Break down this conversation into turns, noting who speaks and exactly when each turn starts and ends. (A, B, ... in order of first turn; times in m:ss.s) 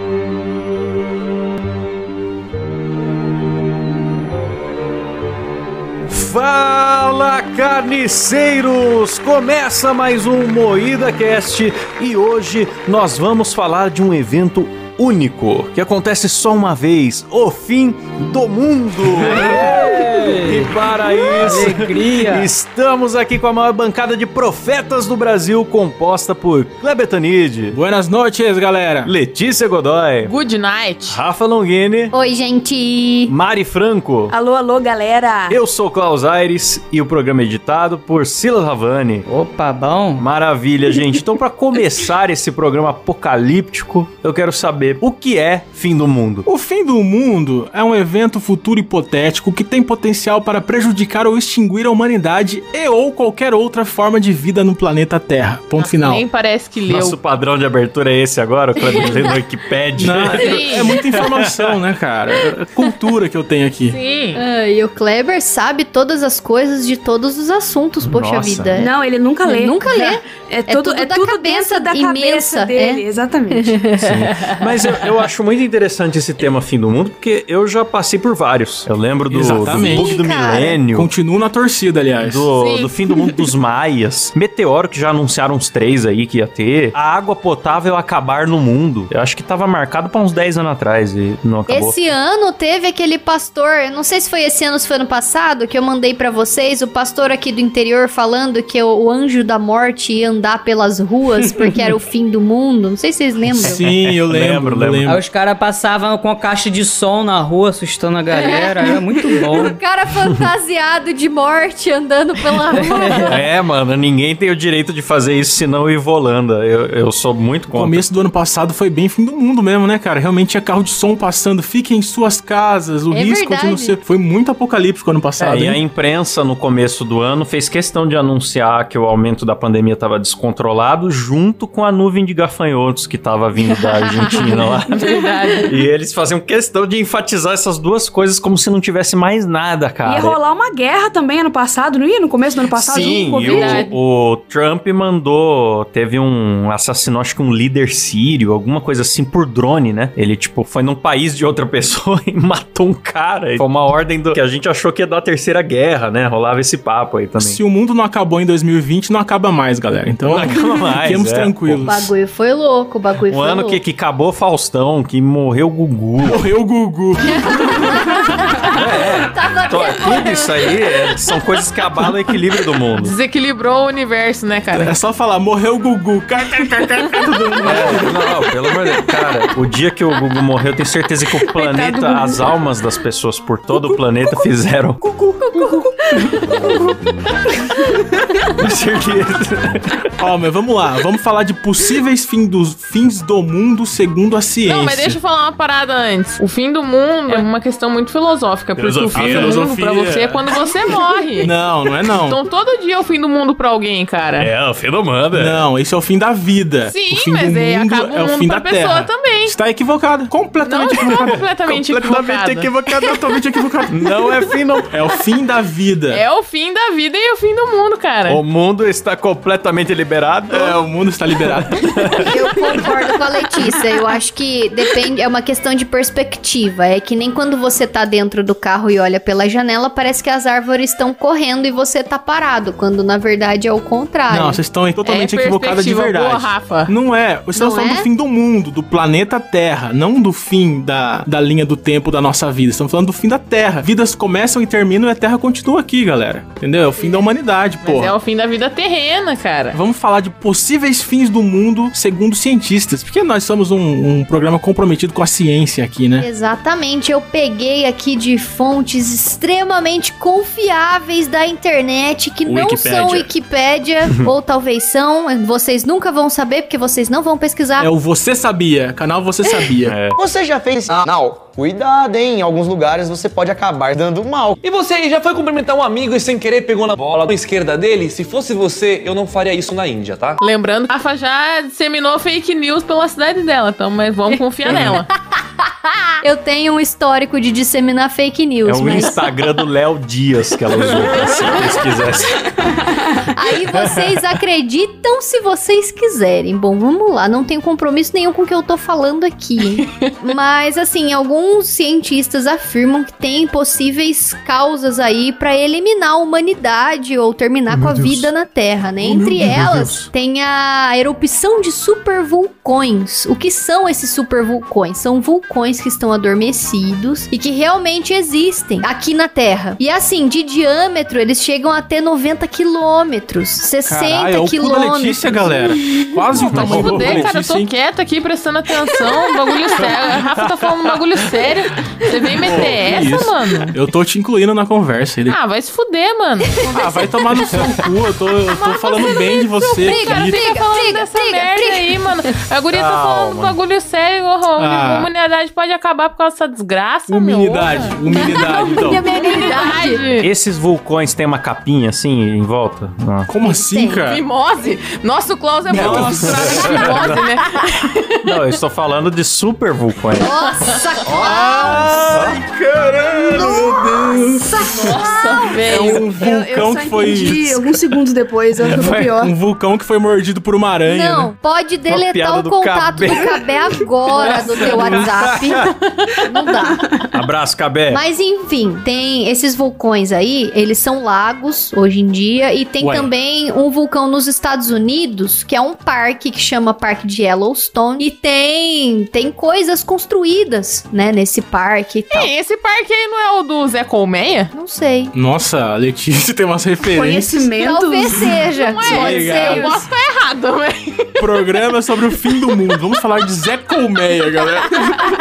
0:06.1-0:27.8 A
0:19.3-0:22.5 B
0:27.7-0:29.1 C
0:29.0-0:30.3 A
0:30.2-0:31.2 D
0:31.1-0:32.1 A
0:32.1-0:33.3 E
0:33.3-0:34.3 A
0:34.3-0:35.6 F
0:35.5-0:39.2 A
0:39.3-0:40.2 B
0:40.2-0:46.4 A
0:46.4-0:56.2 C
0:55.8-0:57.2 D
0:56.9-1:01.7 A
0:58.9-0:59.3 E
1:00.0-1:04.0 C
1:00.4-1:01.0 D
1:00.7-1:00.9 E
1:03.9-1:04.4 D
1:04.4-1:08.9 E
1:08.0-1:08.8 A
1:08.8-1:13.8 F
1:09.4-1:14.4 E
1:14.0-1:14.3 C
1:14.0-1:21.1 A
1:19.3-1:20.2 C
1:19.7-1:20.8 E
1:20.9-1:22.5 C
1:22.2-1:32.0 A
1:22.6-1:23.5 D
1:31.7-1:43.8 E
1:43.5-1:45.2 C
1:43.6-1:45.1 A
1:45.0-1:49.8 B
1:48.3-1:53.4 E
1:52.7-1:53.4 B
1:53.2-1:58.0 A
1:57.7-2:05.8 C
2:03.1-2:04.0 E
2:05.4-2:20.4 A
2:14.0-2:15.8 D
2:20.0-2:23.9 F
2:22.8-2:37.6 A
2:23.0-2:23.9 D
2:37.4-2:42.1 C
2:40.2-2:41.9 A
2:41.8-2:43.8 E
2:43.3-2:46.4 A
2:46.2-2:48.4 C
2:47.4-2:50.7 E
2:48.7-2:53.1 A
2:53.0-2:54.9 D
2:54.7-2:58.4 C
2:57.6-3:05.0 A
3:01.4-3:02.6 F
3:05.2-3:06.7 E
3:08.6-3:10.0 A
3:10.2-3:15.2 C
3:14.6-3:21.5 D
3:18.8-3:19.6 A
3:19.1-3:20.4 C
3:21.4-3:22.4 C
3:22.0-3:24.5 D
3:24.4-3:25.6 A
3:25.3-3:34.1 C
3:26.9-3:29.5 D
3:30.6-3:32.7 D
3:33.9-3:34.9 A
3:34.9-3:36.2 C
3:36.1-3:38.4 D
3:38.3-3:40.8 A
3:40.5-3:42.3 C
3:41.6-3:42.8 A
3:42.2-3:54.6 E
3:54.3-4:08.1 C
3:55.0-3:56.9 D
3:57.5-3:58.1 E
4:07.0-4:07.2 D
4:07.8-4:09.8 D
4:09.7-4:16.3 C
4:16.2-4:27.9 E
4:22.4-4:23.3 C
4:27.8-4:30.0 C
4:29.8-4:30.2 A
4:30.1-4:34.6 G
4:34.6-4:40.4 H
4:40.4-4:45.1 D
4:44.7-4:45.0 E
4:46.2-4:49.3 E
4:48.6-4:52.4 A
4:51.3-4:51.7 E
4:53.3-5:26.0 E
5:07.7-5:08.2 C
5:09.0-5:10.1 A
5:09.4-5:10.0 C
5:23.8-5:27.7 C
5:26.4-5:33.7 D
5:26.5-5:27.3 A
5:30.4-5:30.9 A
5:32.4-5:35.4 C
5:35.3-5:36.6 D
5:36.6-5:40.4 C
5:38.5-5:42.1 E
5:39.7-5:48.4 D
5:42.7-5:43.6 A
5:44.6-5:45.1 C
5:47.1-5:49.0 C
5:48.1-5:50.0 E
5:49.0-5:50.3 D
5:50.2-5:53.3 A
5:53.3-5:54.2 C
5:53.4-5:54.0 E
5:54.0-5:58.1 D
5:55.7-5:57.2 C
5:55.7-5:57.2 A
5:58.2-6:00.3 A
6:00.1-6:02.4 E
6:01.1-6:03.9 A
6:02.3-6:04.5 C
6:03.3-6:05.8 E
6:04.7-6:06.1 D
6:05.6-6:07.5 C
6:06.0-6:09.3 F
6:08.6-6:11.3 C
6:08.7-6:09.0 A
6:10.8-6:15.7 E
6:11.9-6:13.3 A
6:14.1-6:15.3 C
6:14.6-6:15.7 A
6:16.3-6:16.9 E
6:17.1-6:18.0 A
6:17.9-6:32.3 E
6:22.8-6:23.1 C
6:32.1-6:34.5 D
6:34.5-6:35.1 E
6:35.1-6:37.5 C
6:36.9-6:38.2 F
6:37.6-6:39.8 E
6:38.5-6:41.6 D
6:38.8-6:39.8 C
6:41.2-6:45.0 C